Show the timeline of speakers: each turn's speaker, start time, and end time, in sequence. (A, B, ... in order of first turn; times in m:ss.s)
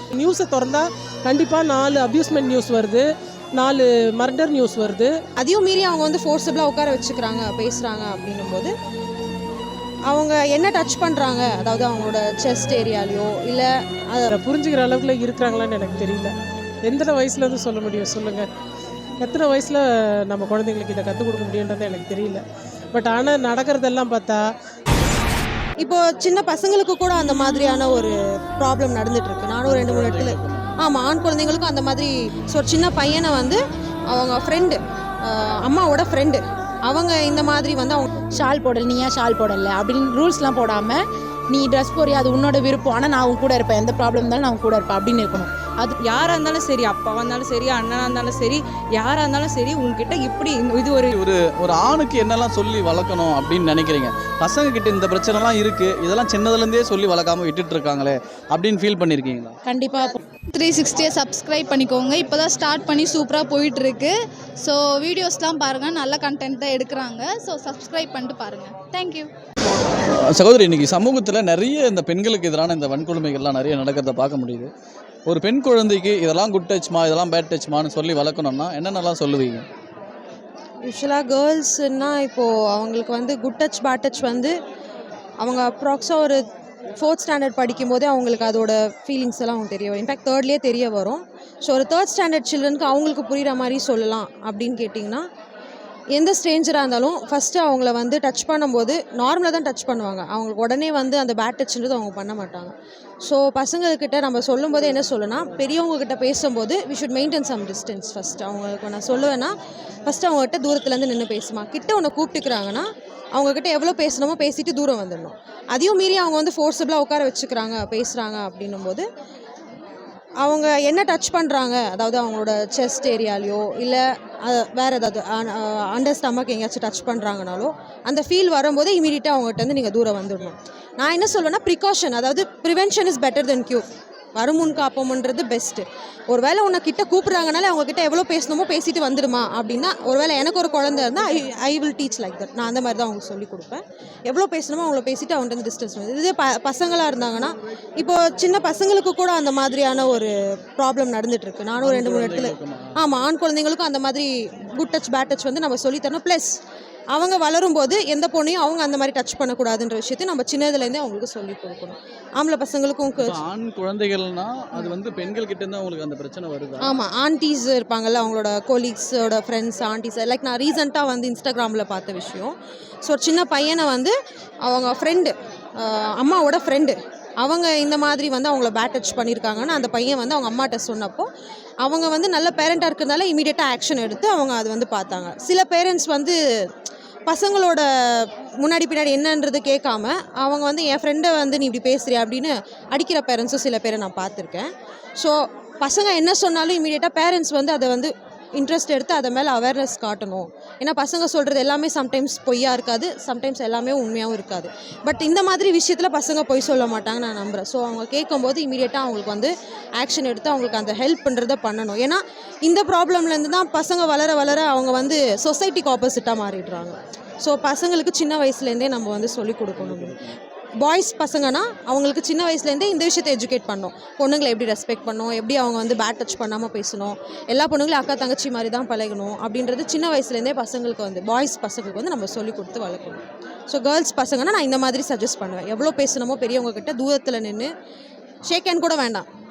0:00.1-0:03.0 A
0:03.6-0:05.1 A
0:05.4-0:08.7 B
0:10.1-0:14.3 B
0:14.3-0:16.3 A
0:16.8-0:18.5 A
0:19.2-0:24.4 A
0:25.8-0:33.6 B
0:29.7-0:30.6 C
0:34.1-0:38.1 B
0:38.3-0:41.0 D
0:41.5-0:46.0 D
0:46.0-0:51.1 E
0:51.1-0:59.6 C
0:59.6-1:00.2 D
1:00.5-1:09.3 F
1:10.1-1:14.7 C
1:15.3-1:19.6 C
1:20.9-1:24.5 B
1:25.4-1:26.4 B
1:27.0-1:35.2 B
1:36.1-1:42.7 B
1:43.2-1:49.5 B
1:50.0-1:59.0 B
2:00.4-2:13.8 B
2:14.4-2:36.5 B
2:31.8-2:33.0 C
2:37.1-2:43.4 B
2:43.2-2:46.9 C
2:46.8-2:54.1 B
2:54.6-3:01.3 B
3:01.8-3:06.4 B
3:07.3-3:07.8 B
3:08.6-3:40.2 B
3:39.8-3:40.3 C
3:40.8-3:57.7 B
3:58.5-3:59.2 B